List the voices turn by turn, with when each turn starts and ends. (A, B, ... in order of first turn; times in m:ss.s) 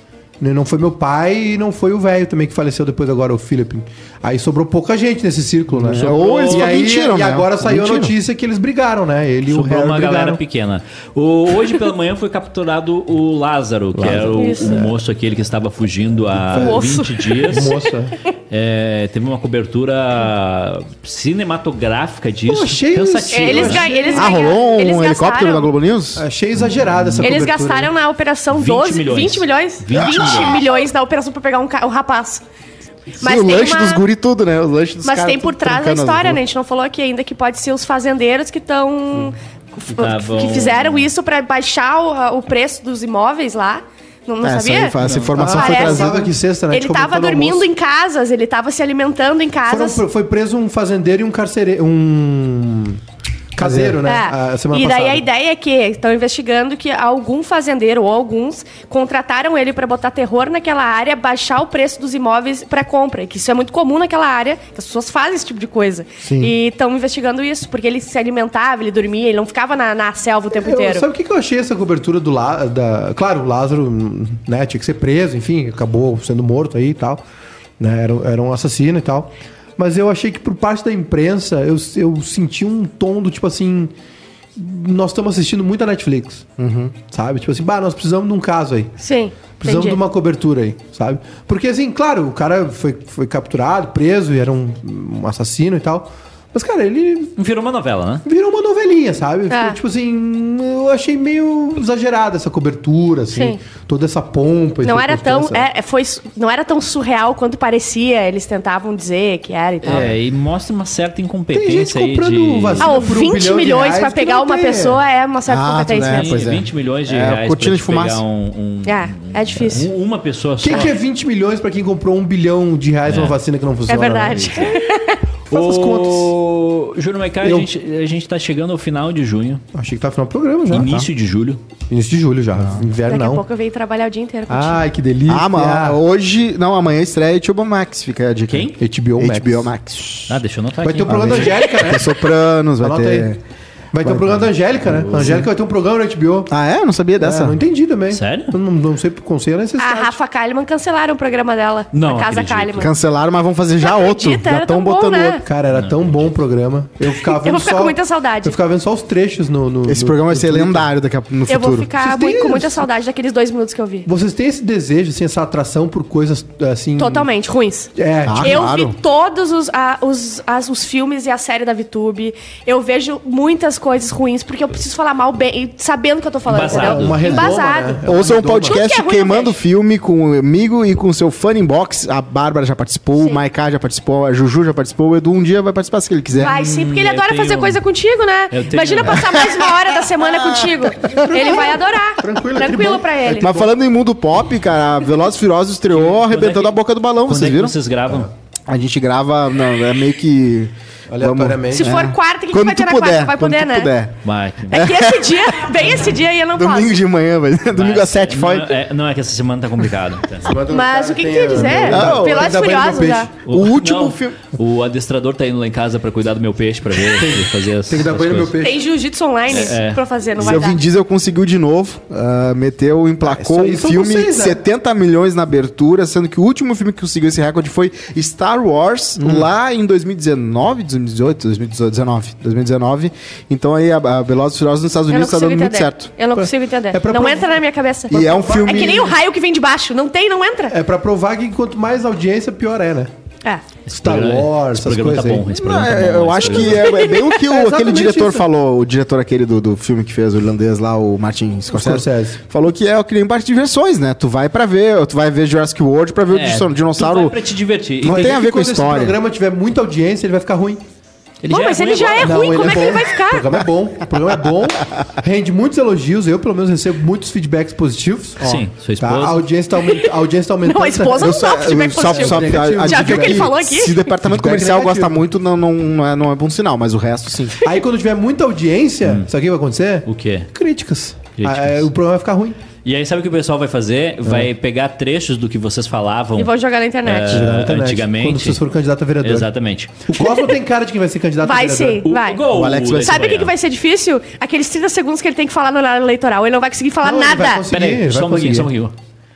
0:00.4-0:10.4 A
0:05.7-0:08.1 B
0:05.9-0:06.8 C
0:09.5-0:17.8 C
0:13.9-0:14.9 A
0:14.3-0:14.8 D
0:16.4-0:16.9 A
0:16.5-0:17.7 D
0:17.4-0:18.2 A
0:18.5-0:23.9 C
0:22.5-0:24.5 A
0:23.3-0:25.7 D
0:24.1-0:26.2 B
0:26.2-0:27.9 A
0:27.2-0:32.4 D
0:28.5-0:30.6 C
0:33.2-0:34.0 D
0:33.2-0:36.4 B
0:35.0-0:46.2 D
0:40.0-0:41.1 C
0:44.4-0:46.3 B
0:45.0-0:45.4 C
0:45.3-0:47.7 A
0:46.7-0:50.0 D
0:49.7-0:53.0 A
0:53.5-0:55.2 A
0:53.6-0:54.0 B
0:54.0-1:11.1 D
1:06.2-1:06.5 B
1:10.6-1:17.2 A
1:17.8-1:23.9 A
1:24.6-1:26.5 A
1:26.6-1:26.9 B
1:27.1-1:28.9 A
1:29.0-1:30.0 D
1:29.6-1:37.3 A
1:37.4-1:38.2 C
1:38.2-1:45.6 A
1:39.5-1:39.8 D
1:43.3-1:43.6 D
1:44.8-1:50.1 D
1:49.8-1:53.0 C
1:51.5-1:55.0 A
1:52.8-1:56.4 D
1:55.5-1:58.2 B
1:56.1-2:00.9 C
1:58.8-1:59.9 D
2:00.6-2:04.8 A
2:03.0-2:03.4 C
2:03.9-2:05.2 D
2:05.5-2:06.3 A
2:05.5-2:09.6 C
2:07.4-2:07.7 A
2:09.7-2:11.0 A
2:10.7-2:11.6 C
2:10.8-2:11.1 B
2:11.9-2:13.4 A
2:12.6-2:12.8 B
2:13.1-2:14.8 D
2:14.5-2:16.0 A
2:15.3-2:20.4 B
2:18.5-2:18.8 C
2:18.8-2:19.7 A
2:20.3-2:21.7 C
2:20.8-2:22.1 A
2:21.0-2:23.4 B
2:22.8-2:23.3 A
2:23.9-2:26.5 A
2:24.0-2:24.5 B
2:24.9-2:25.4 C
2:26.5-2:27.6 B
2:27.2-2:30.2 A
2:28.1-2:28.6 C
2:29.8-2:32.9 D
2:31.9-2:32.9 C
2:32.8-2:35.4 B
2:33.8-2:35.4 D
2:35.4-2:40.9 A
2:35.7-2:36.3 C
2:37.2-2:38.6 D
2:39.8-2:41.9 B
2:41.5-2:44.1 D
2:41.9-2:42.8 A
2:44.0-2:47.3 A
2:47.0-2:58.0 D
2:48.0-2:48.6 A
2:48.2-2:49.0 B
2:56.5-2:57.3 C
2:56.6-2:58.8 A
2:58.0-3:06.5 B
2:58.6-2:59.6 D
3:06.4-3:13.6 D
3:06.4-3:07.8 C
3:08.5-3:09.4 C
3:10.3-3:10.8 B
3:11.0-3:13.7 A
3:13.4-3:17.8 B
3:15.9-3:18.3 C
3:18.7-3:24.2 B
3:21.1-3:21.9 A
3:21.7-3:23.9 D
3:24.2-3:24.9 C
3:24.7-3:27.0 D
3:24.7-3:25.8 B
3:26.5-3:28.8 B
3:27.7-3:30.6 C
3:30.4-3:33.3 A
3:30.7-3:33.3 D
3:31.8-3:32.6 B
3:33.4-3:38.5 C
3:33.5-3:34.4 B
3:37.2-3:38.8 A
3:38.6-3:40.8 D
3:39.5-3:40.6 C
3:40.4-3:56.1 B
3:43.2-3:44.6 A
3:49.2-3:49.4 A
3:55.1-4:00.7 D
3:56.4-3:59.2 A
3:58.1-3:59.1 B
4:00.7-4:03.1 A
4:03.8-4:07.0 C
4:03.9-4:05.5 A
4:05.5-4:17.4 B
4:06.9-4:07.4 D
4:07.3-4:08.4 A
4:11.7-4:12.4 A
4:16.3-4:18.4 C
4:18.0-4:19.2 B
4:18.0-4:20.8 A
4:21.4-4:23.0 C
4:21.5-4:23.5 D
4:22.2-4:33.5 A
4:28.4-4:29.4 C
4:30.6-4:34.0 D
4:31.2-4:37.6 B
4:34.2-4:35.2 A
4:37.6-4:42.6 A
4:40.0-4:40.5 C
4:41.4-4:41.9 C
4:42.8-4:46.5 C
4:46.4-4:47.4 D
4:47.0-4:48.6 C
4:47.3-4:49.5 A
4:49.2-4:50.0 C
4:50.0-4:52.0 A
4:50.2-4:50.5 D
4:51.4-4:52.4 D
4:52.0-4:53.5 C
4:52.5-4:53.3 B
4:53.0-4:57.6 D
4:57.0-4:58.7 A
4:57.7-4:58.9 C